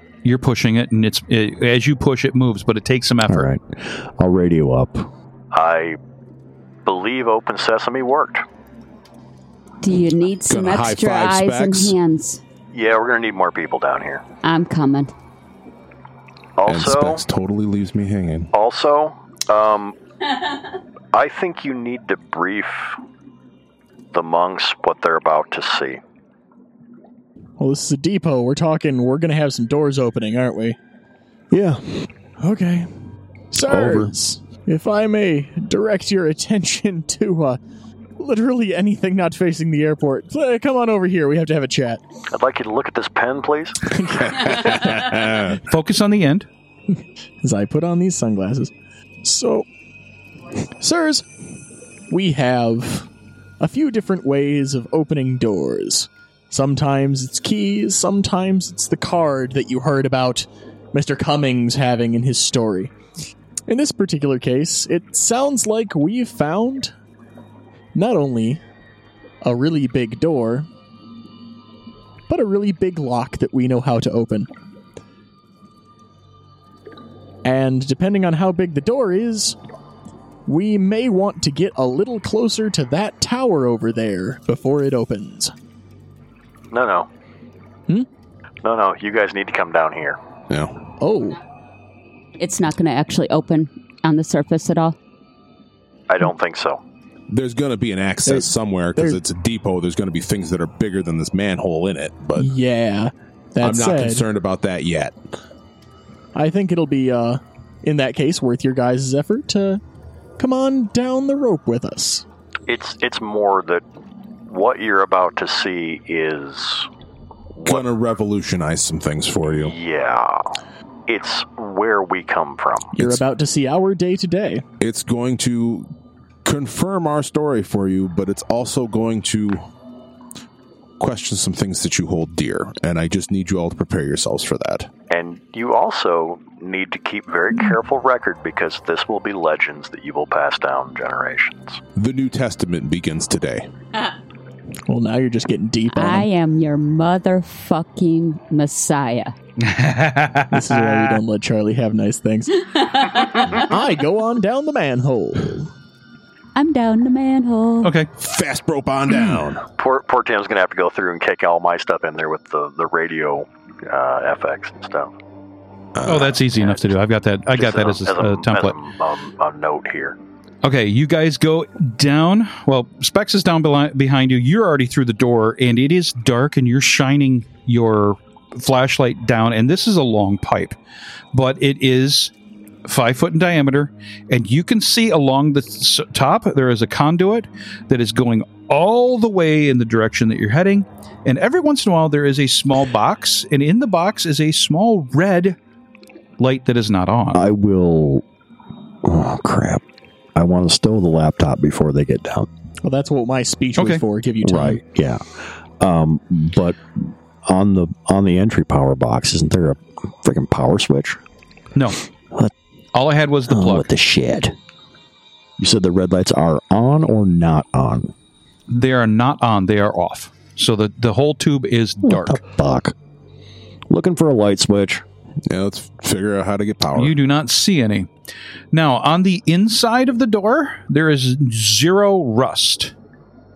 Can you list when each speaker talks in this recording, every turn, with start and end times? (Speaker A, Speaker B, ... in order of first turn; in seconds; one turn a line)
Speaker A: 0.2-3.5
Speaker B: 3.3-5.1
Speaker C: 5.5-6.0
Speaker C: 6.9-8.4
Speaker D: 9.8-12.4
Speaker E: 10.5-12.0
Speaker C: 12.7-14.2
Speaker D: 14.4-15.1
Speaker C: 16.6-17.2
Speaker E: 16.7-18.5
Speaker C: 18.5-20.0
Speaker C: 21.1-23.0
Speaker C: 24.1-26.0
Speaker F: 27.6-30.8
Speaker B: 31.5-32.0
Speaker F: 32.4-32.9
Speaker F: 33.5-37.6
Speaker B: 33.7-34.1
Speaker F: 38.2-42.0
Speaker C: 42.3-43.8
Speaker E: 44.0-45.6
Speaker F: 44.1-44.8
Speaker A: 45.7-46.5
Speaker F: 47.4-48.7
Speaker F: 49.2-49.7
Speaker F: 50.7-51.3
Speaker F: 52.1-53.1
Speaker F: 53.6-62.9
Speaker F: 63.7-66.9
Speaker F: 68.0-68.6
Speaker F: 69.4-70.7
Speaker F: 72.3-74.5
Speaker F: 77.4-79.6
Speaker F: 80.5-85.5
Speaker C: 86.7-87.1
Speaker C: 88.6-90.2
Speaker E: 90.5-90.8
Speaker F: 91.0-91.4
Speaker D: 92.4-95.0
Speaker C: 96.1-96.8
Speaker E: 97.3-102.5
Speaker F: 98.2-99.2
Speaker F: 102.4-104.3
Speaker E: 103.6-105.2
Speaker F: 106.3-109.8
Speaker F: 110.4-112.2
Speaker C: 112.7-113.8
Speaker C: 114.5-116.9
Speaker C: 117.5-117.8
Speaker E: 117.7-119.8
Speaker C: 119.6-120.5
Speaker C: 121.1-123.0
Speaker F: 122.9-124.6
Speaker E: 124.8-125.9
Speaker E: 126.5-129.6
Speaker E: 131.0-134.9
Speaker C: 135.1-141.8
Speaker E: 142.0-143.7
Speaker F: 144.9-146.3
Speaker D: 145.9-149.3
Speaker A: 149.6-151.2
Speaker F: 150.5-152.7
Speaker D: 153.1-153.5
Speaker F: 153.5-155.7
Speaker D: 156.6-157.9
Speaker A: 157.8-158.1
Speaker E: 158.2-159.7
Speaker C: 159.8-165.1
Speaker E: 166.0-166.4
Speaker A: 166.1-168.8
Speaker C: 167.5-170.2
Speaker A: 170.6-180.8
Speaker A: 181.3-182.3
Speaker A: 182.9-195.6
Speaker A: 196.4-197.4
Speaker B: 197.3-198.2
Speaker B: 199.0-199.8
Speaker B: 200.3-202.5
Speaker F: 202.8-204.8
Speaker A: 203.8-204.0
Speaker B: 204.4-211.2
Speaker A: 211.8-212.0
Speaker A: 212.9-213.9
Speaker B: 213.5-214.6
Speaker B: 215.6-218.1
Speaker A: 218.7-222.4
Speaker B: 222.0-222.9
Speaker B: 223.9-225.1
Speaker E: 225.5-227.2
Speaker A: 226.9-228.1
Speaker A: 228.7-232.9